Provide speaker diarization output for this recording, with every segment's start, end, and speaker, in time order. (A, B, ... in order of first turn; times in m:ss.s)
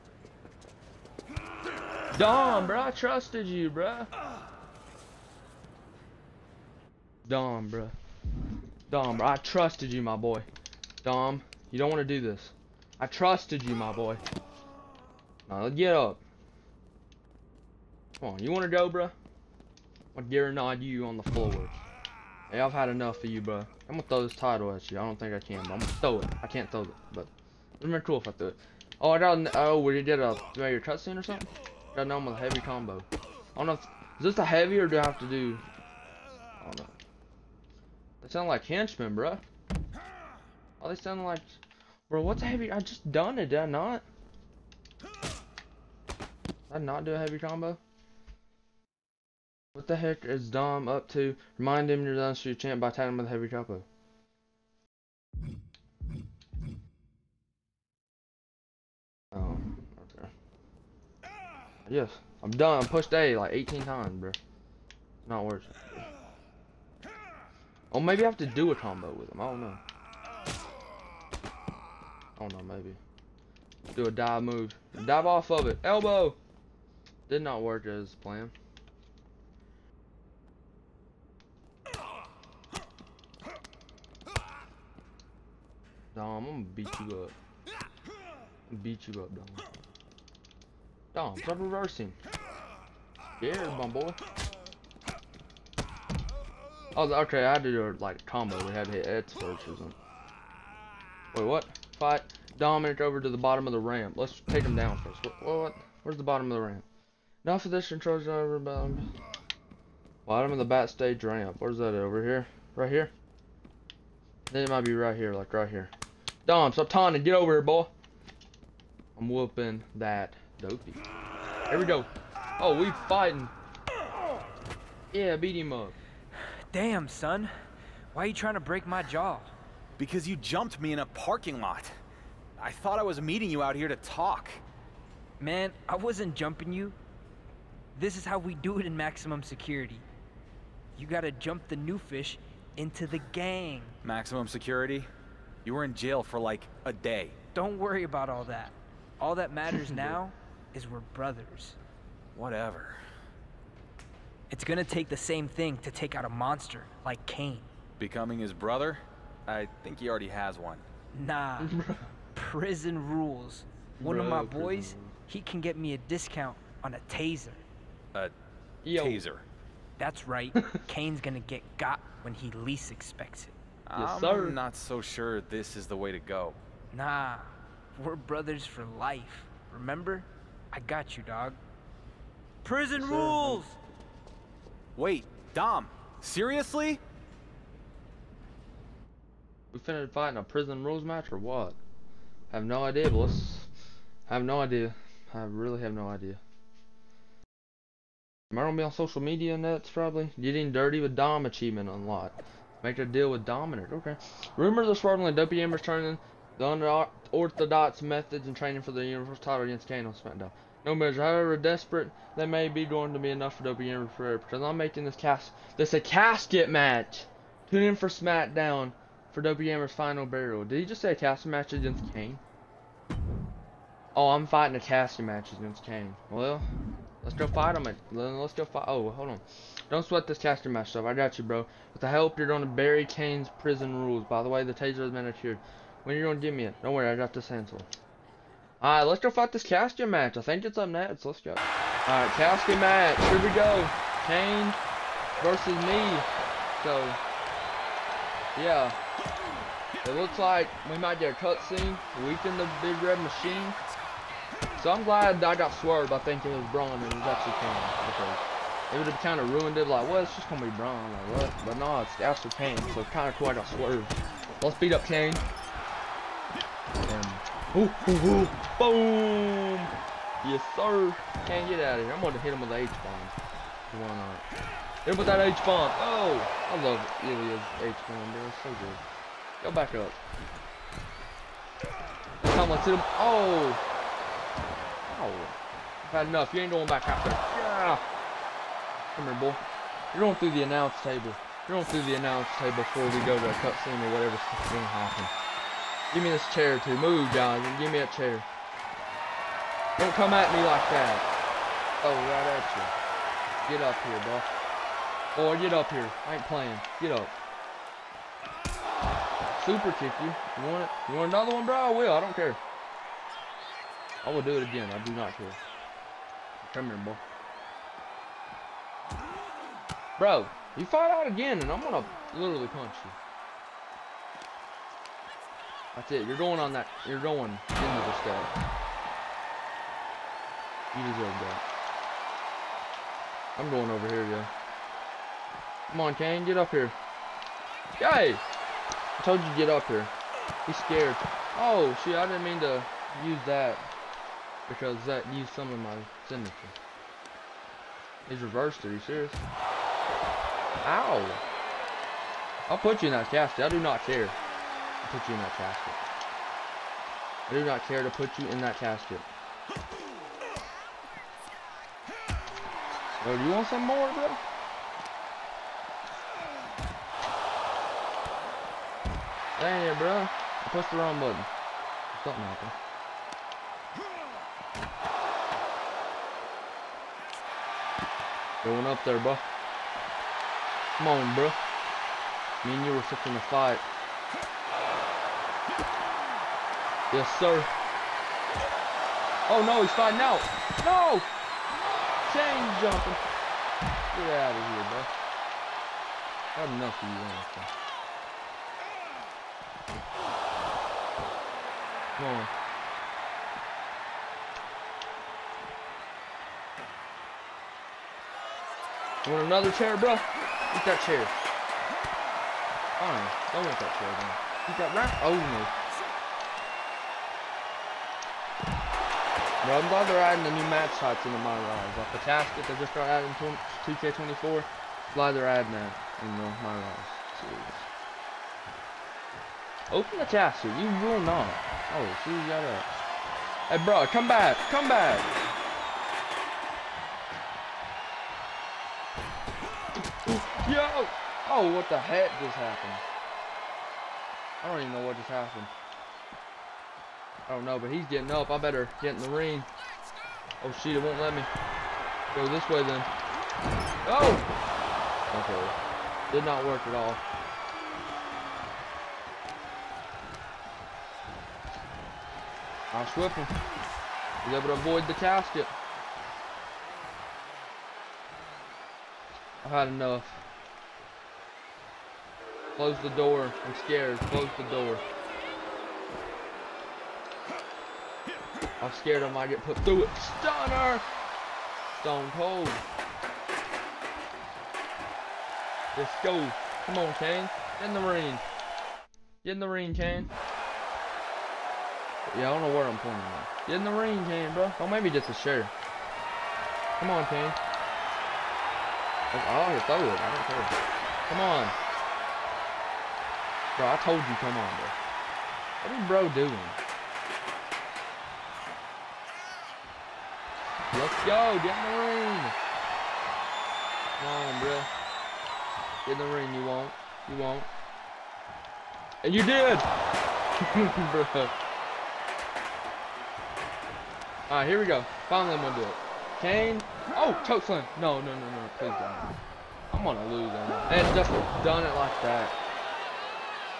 0:02.1-0:04.1 A
0:07.3-0:07.9 A
0:08.9-0:10.5 A
0:11.0-0:14.2 A
0:15.5-0:16.2 A
0:18.2-0:19.1 A
0:20.1-0:21.8 A
0:22.5-0:35.6 A
0:36.6-0:36.9 A
0:38.2-0:39.4 A
0:40.8-0:41.6 A
0:42.1-0:44.0 A
0:46.7-0:47.8 A
0:49.8-0:53.8 A
0:59.3-1:00.3 A
1:01.9-1:04.4 A
1:05.3-1:06.0 A
1:07.9-1:09.8 A
1:12.4-1:13.0 A
1:13.9-1:16.4 A
1:17.3-1:18.5 A
1:26.1-1:27.4 A
1:28.7-1:29.6 A
1:31.1-1:32.2 A
1:33.4-1:34.2 A
1:37.0-1:40.0 A
1:41.3-1:46.8 A
1:47.4-1:49.1 A
1:50.3-1:53.1 A
1:54.5-1:55.9 A
1:56.5-1:57.9 A
1:59.2-2:01.0 A
2:01.7-2:03.5 A
2:05.1-2:06.0 A
2:06.7-2:07.5 B
2:08.1-2:09.5 B
2:10.0-2:11.9 C
2:12.6-2:14.6 C
2:15.4-2:17.0 B
2:18.0-2:20.0 B
2:21.0-2:24.0 B
2:24.0-2:25.1 C
2:25.6-2:27.4 C
2:27.6-2:31.8 B
2:32.4-2:33.0 C
2:34.5-2:37.7 B
2:38.0-2:40.8 C
2:41.1-2:41.7 B
2:41.6-2:42.0 A
2:42.4-2:47.6 B
2:44.0-2:45.1 A
2:48.8-2:49.2 A
2:48.9-2:49.4 C
2:50.0-2:53.6 B
2:53.9-2:56.6 C
2:54.0-2:54.6 A
2:56.9-3:01.6 B
3:02.6-3:03.8 B
3:03.0-3:03.6 A
3:05.0-3:07.0 C
3:09.7-3:11.8 A
3:12.5-3:13.7 A
3:14.3-3:16.4 A
3:18.5-3:42.4 A
3:44.2-3:46.7 A
3:47.2-3:57.9 A
3:58.8-4:04.8 A
4:05.4-4:07.2 A
4:08.6-4:09.0 A
4:10.0-4:13.8 A
4:14.8-4:25.4 A
4:27.0-4:33.3 A
4:33.9-4:34.4 A
4:35.0-4:39.0 A
4:39.6-4:40.2 A
4:42.4-4:43.8 A
4:45.1-4:48.0 A
4:49.2-4:55.3 A
4:56.1-4:58.5 A
5:00.0-5:01.3 A
5:02.0-5:03.0 A
5:03.7-5:04.5 A
5:05.4-5:07.3 A
5:09.6-5:12.6 A
5:14.2-5:15.6 A
5:16.6-5:17.2 A
5:20.2-5:23.2 A
5:25.9-5:28.5 A
5:30.9-5:31.6 A
5:33.6-5:34.5 A
5:35.9-5:37.0 A
5:38.0-5:38.4 A
5:39.2-5:40.1 A
5:40.7-5:43.9 A
5:44.7-5:46.7 A
5:48.3-5:49.4 A
5:50.8-5:51.4 A
5:52.7-5:54.4 A
5:55.0-5:56.0 A
5:57.5-5:59.3 A
6:03.2-6:04.4 A
6:09.6-6:11.5 A
6:12.1-6:12.8 A
6:18.6-6:19.4 A
6:21.0-6:21.6 A
6:22.6-6:23.8 A
6:27.1-6:27.7 A
6:29.5-6:31.3 A
6:32.3-6:33.2 A
6:34.1-6:35.1 A
6:36.6-6:37.7 A
6:42.2-6:42.5 A
6:49.2-6:51.3 A
6:53.0-6:55.7 A
6:59.6-7:07.9 A
7:09.9-7:12.9 A
7:13.7-7:15.3 A
7:20.2-7:23.0 A
7:24.6-7:25.7 A
7:27.5-7:29.7 A
7:30.6-7:31.5 A
7:32.3-7:33.1 A
7:34.1-7:34.5 A
7:35.3-7:35.8 A
7:36.3-7:37.2 A
7:42.9-7:43.6 A
7:44.4-7:45.7 A
7:49.6-7:50.4 A
7:52.8-7:55.0 A
7:58.8-8:01.1 A
8:02.0-8:02.8 A
8:05.9-8:08.4 A
8:09.4-8:10.3 A
8:12.3-8:15.7 A
8:17.0-8:17.6 A
8:19.3-8:20.7 A
8:21.3-8:21.8 A
8:23.8-8:25.0 A
8:25.8-8:26.8 A
8:30.9-8:32.6 A
8:34.2-8:34.9 A
8:36.0-8:37.7 A
8:39.2-8:39.9 A
8:40.6-8:41.5 A
8:44.5-8:49.3 A
8:49.9-8:52.6 A